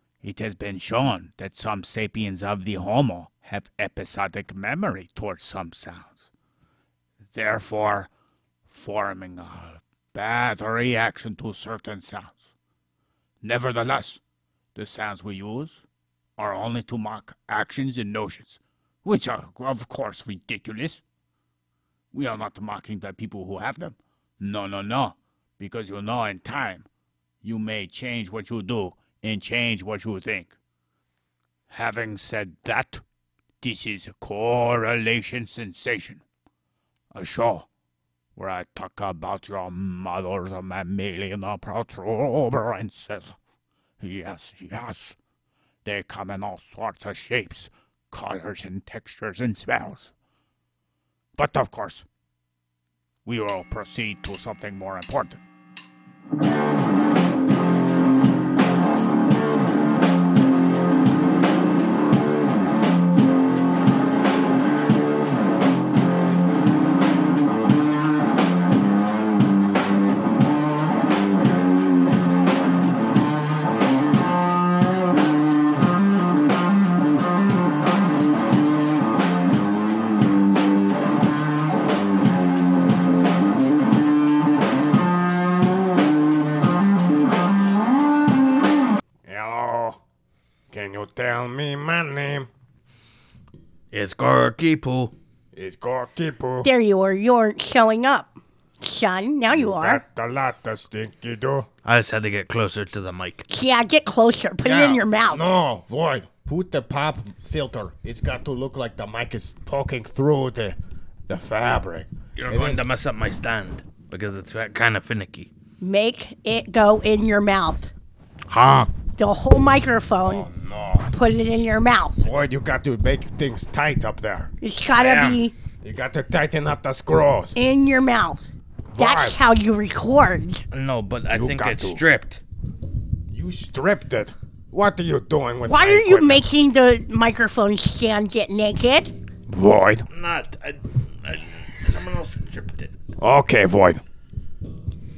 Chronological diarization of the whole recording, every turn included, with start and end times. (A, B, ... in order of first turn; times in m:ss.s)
0:00.2-0:06.2 A
0:07.3-0:08.1 A
0:08.7-0:12.4 A
0:13.4-0:14.2 A
0:14.8-0:15.8 A
0:16.4-0:21.0 A
0:22.1-0:26.9 A
0:27.4-0:30.5 A
0:31.7-0:33.0 A
0:33.6-0:36.2 A
0:37.1-0:37.7 A
0:38.4-0:43.4 A
0:44.0-0:45.2 A
0:45.8-0:50.1 A
0:51.4-0:52.0 A
0:53.2-0:55.4 A
1:29.3-1:30.0 B
1:30.7-1:32.5 B
1:33.9-1:35.1 C
1:35.5-1:36.7 B
1:36.6-1:40.0 D
1:39.5-1:41.7 B
1:41.8-1:43.5 C
1:43.5-1:45.5 D
1:44.6-1:45.0 C
1:45.3-1:50.8 B
1:51.3-1:52.8 B
1:52.4-1:55.5 C
1:55.8-1:57.9 D
1:58.5-1:58.9 C
1:59.2-2:00.5 D
2:00.2-2:01.1 B
2:01.0-2:02.2 D
2:02.2-2:07.6 B
2:04.6-2:05.5 D
2:07.6-2:10.6 D
2:09.0-2:09.4 B
2:10.7-2:12.4 C
2:11.3-2:12.0 B
2:13.3-2:16.4 B
2:15.6-2:19.1 D
2:19.5-2:20.1 B
2:20.1-2:22.9 C
2:23.2-2:24.0 B